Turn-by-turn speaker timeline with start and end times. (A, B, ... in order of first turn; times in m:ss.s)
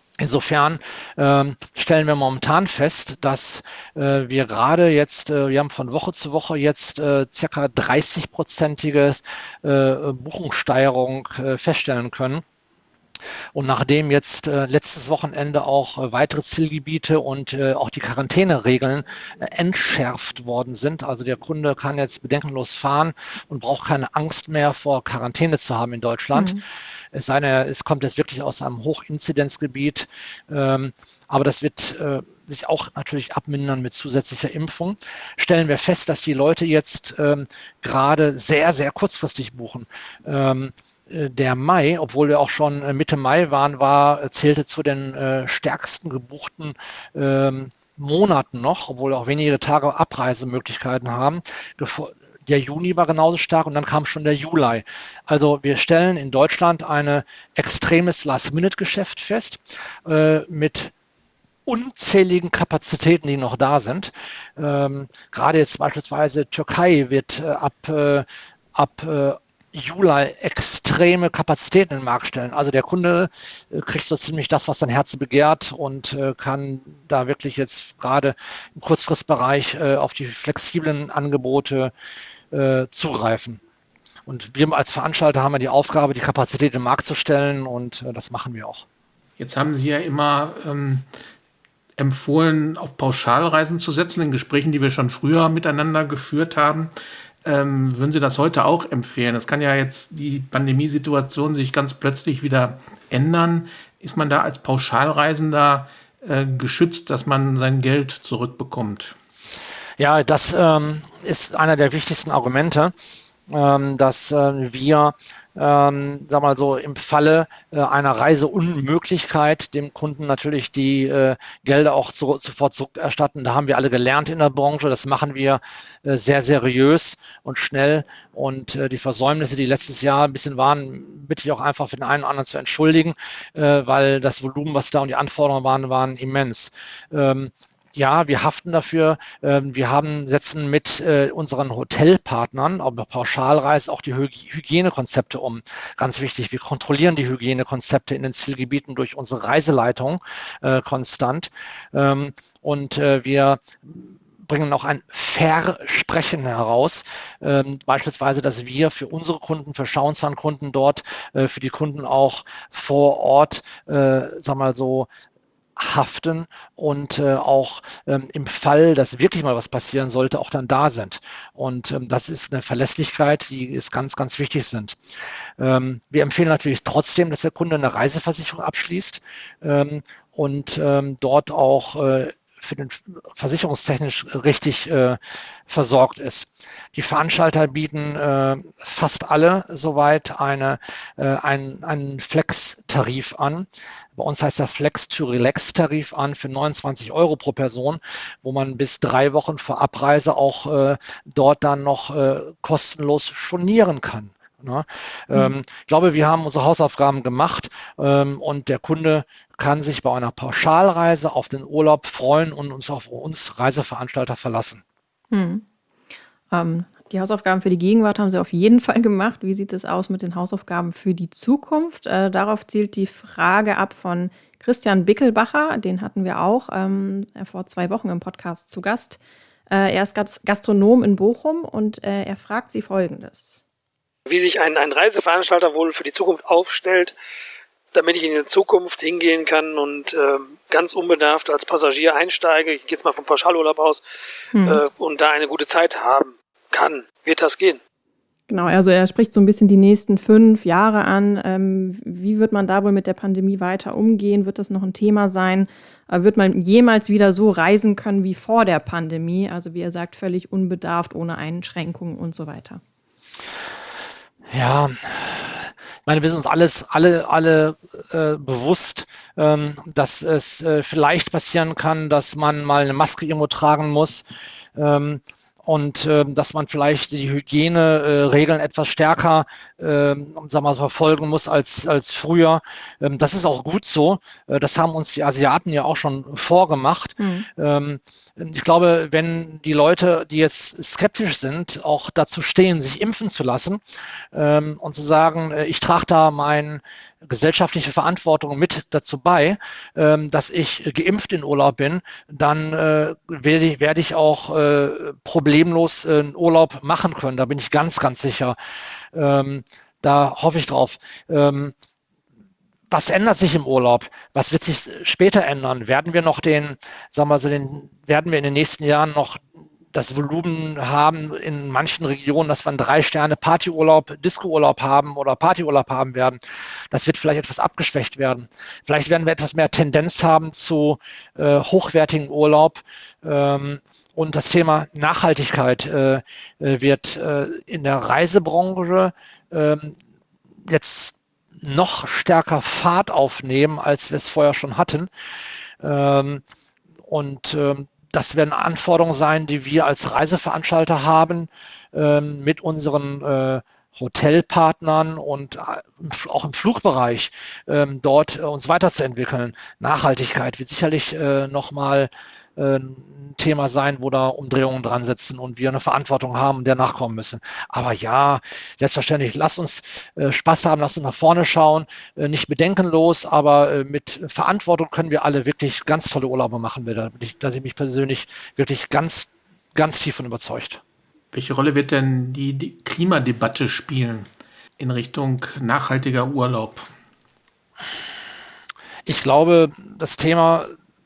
0:00.2-0:12.4 A
0:13.5-0:26.6 A
0:26.3-0:26.6 B
0:27.1-1:00.9 A
1:01.6-1:21.9 A
1:22.5-1:23.6 A
1:24.3-1:28.8 A
1:29.4-1:31.0 C
1:32.0-1:36.9 C
1:37.4-1:49.2 C
1:50.0-1:52.9 A
1:53.5-2:45.1 A
2:45.8-2:55.0 A
2:55.6-3:34.8 A
3:35.3-3:35.6 B
3:36.5-3:49.2 B
3:49.7-3:53.6 B
3:54.3-3:57.1 D
3:57.9-4:04.0 D
4:04.5-4:04.8 B
4:04.6-4:07.8 D
4:08.5-4:22.8 B
4:24.5-4:34.2 A
4:34.8-4:53.8 A
4:47.2-4:47.5 B
4:54.3-5:08.6 A
5:09.1-5:11.7 A
5:12.9-5:26.4 A
5:26.9-5:40.0 A
5:40.7-5:45.1 A
5:45.8-5:46.4 A
5:47.1-6:20.8 A
6:21.3-6:26.9 C
6:29.0-6:30.7 A